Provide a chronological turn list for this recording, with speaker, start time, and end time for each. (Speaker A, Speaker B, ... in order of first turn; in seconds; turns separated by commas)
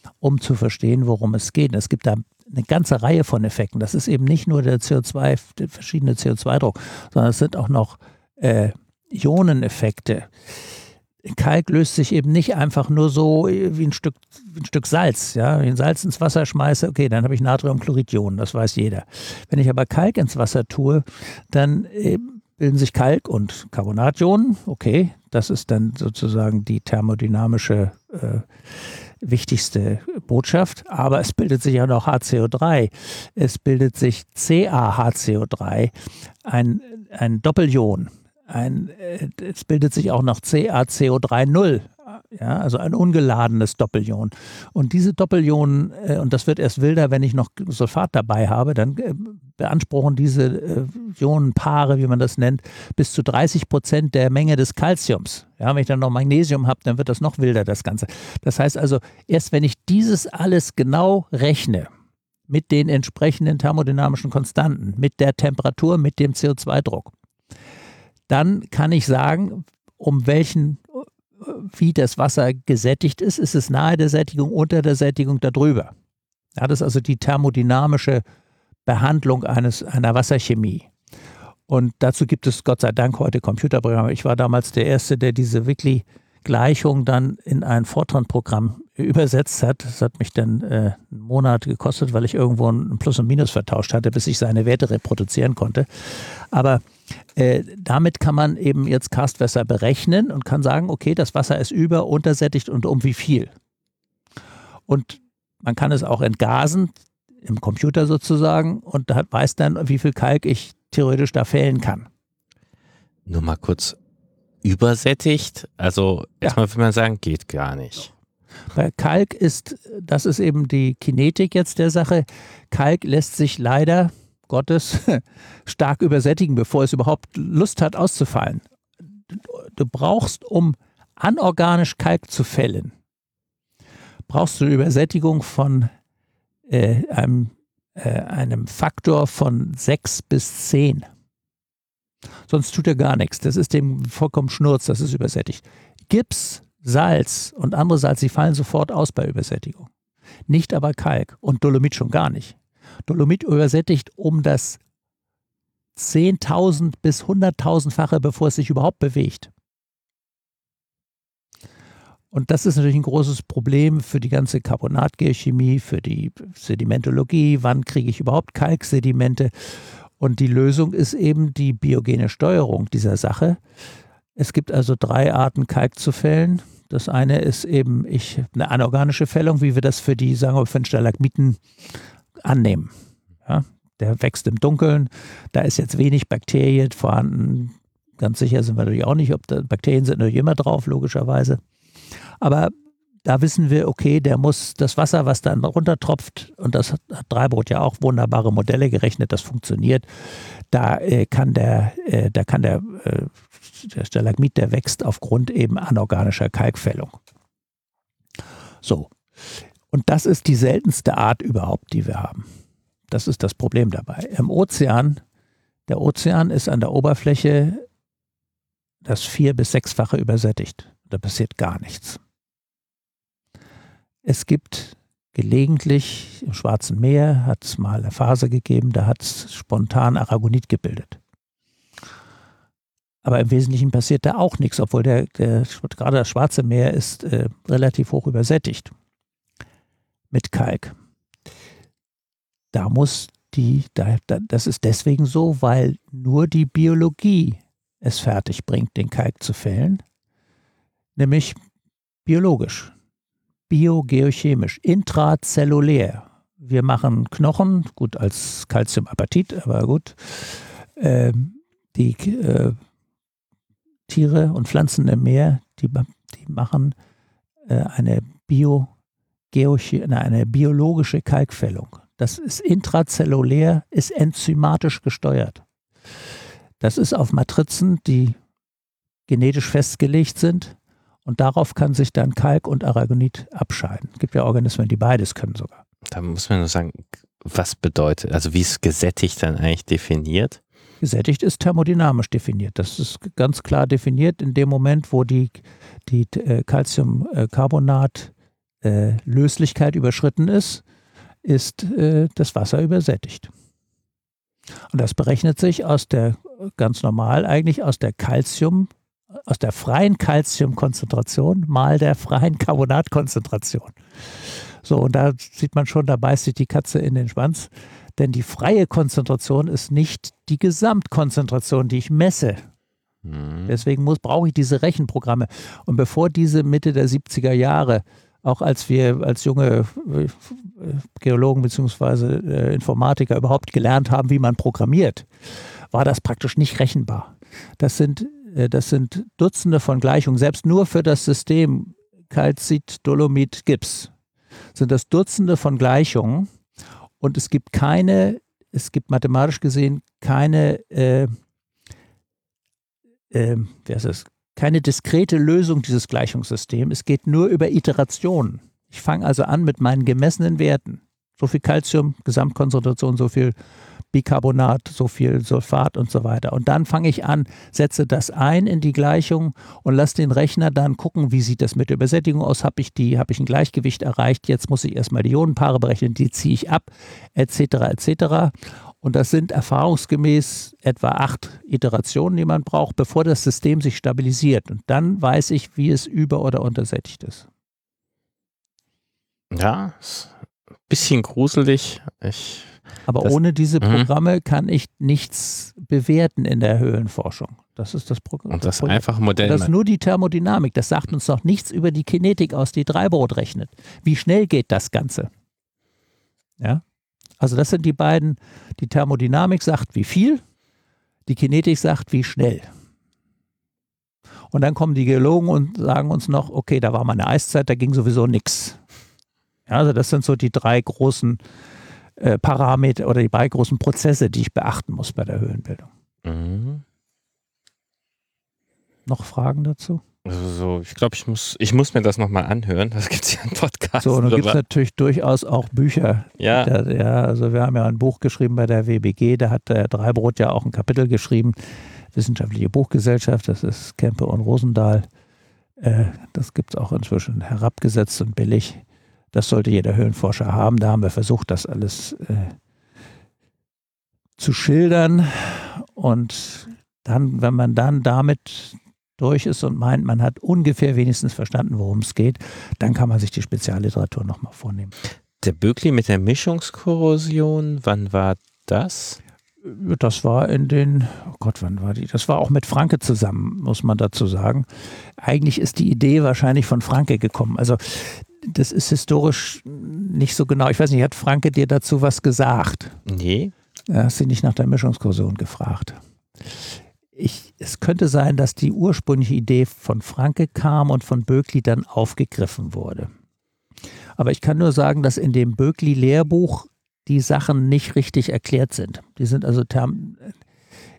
Speaker A: 0.2-10.3, Speaker A: 11.2-35.9, Speaker A: 36.4-61.9, Speaker A: 62.5-67.1, Speaker A: 68.3-75.9, Speaker A: 76.5-78.2, Speaker A: 78.8-80.9, Speaker A: 81.7-96.8, Speaker A: 97.3-103.5, Speaker A: 104.9-112.1, Speaker B: 113.2-114.0, Speaker B: 114.6-118.1, Speaker A: 118.7-128.6, Speaker A: 129.3-132.9, Speaker A: 134.3-135.9, Speaker A: 136.7-141.1, Speaker A: 142.5-149.9, Speaker A: 150.5-154.8, Speaker A: 155.9-159.5, Speaker A: 162.3-173.6, Speaker A: 174.3-181.6, Speaker A: 182.4-182.9, Speaker A: 183.4-191.6, Speaker A: 192.4-192.7, Speaker A: 193.2-207.2, Speaker A: 208.8-209.1, Speaker A: 209.9-212.4, Speaker A: 213.1-215.2, Speaker A: 215.9-217.8, Speaker A: 219.0-222.2, Speaker A: 224.2-231.2, Speaker A: 233.2-238.9, Speaker A: 240.3-240.9, Speaker A: 242.7-250.0, Speaker A: 251.2-251.6, Speaker A: 252.2-252.9, Speaker A: 253.7-262.8, Speaker A: 264.1-266.9, Speaker A: 267.7-268.9, Speaker A: 269.5-275.6, Speaker A: 276.8-278.4, Speaker A: 279.3-285.8, Speaker B: 286.1-290.6, Speaker A: 291.0-298.3, Speaker A: 298.8-300.8, Speaker A: 301.4-303.5, Speaker A: 304.9-322.6, Speaker B: 323.2-323.7, Speaker A: 323.7-335.3, Speaker A: 335.9-344.1, Speaker A: 344.7-346.5, Speaker A: 347.2-351.3, Speaker A: 353.3-363.5, Speaker A: 364.1-387.5, Speaker B: 389.5-390.3, Speaker B: 390.9-394.1, Speaker A: 393.1-405.3, Speaker B: 398.5-399.7, Speaker A: 407.4-410.4, Speaker A: 411.3-412.7, Speaker A: 414.5-418.8, Speaker A: 419.7-421.4, Speaker A: 422.2-425.9, Speaker B: 426.2-426.8, Speaker A: 429.1-430.0, Speaker B: 430.2-434.6, Speaker A: 434.0-441.6, Speaker B: 436.4-436.7, Speaker A: 442.1-445.1, Speaker A: 445.8-452.6, Speaker A: 454.4-464.9, Speaker B: 465.4-469.2, Speaker A: 469.6-483.0, Speaker B: 483.1-483.5, Speaker A: 483.9-486.0, Speaker A: 487.1-493.1, Speaker A: 494.2-500.3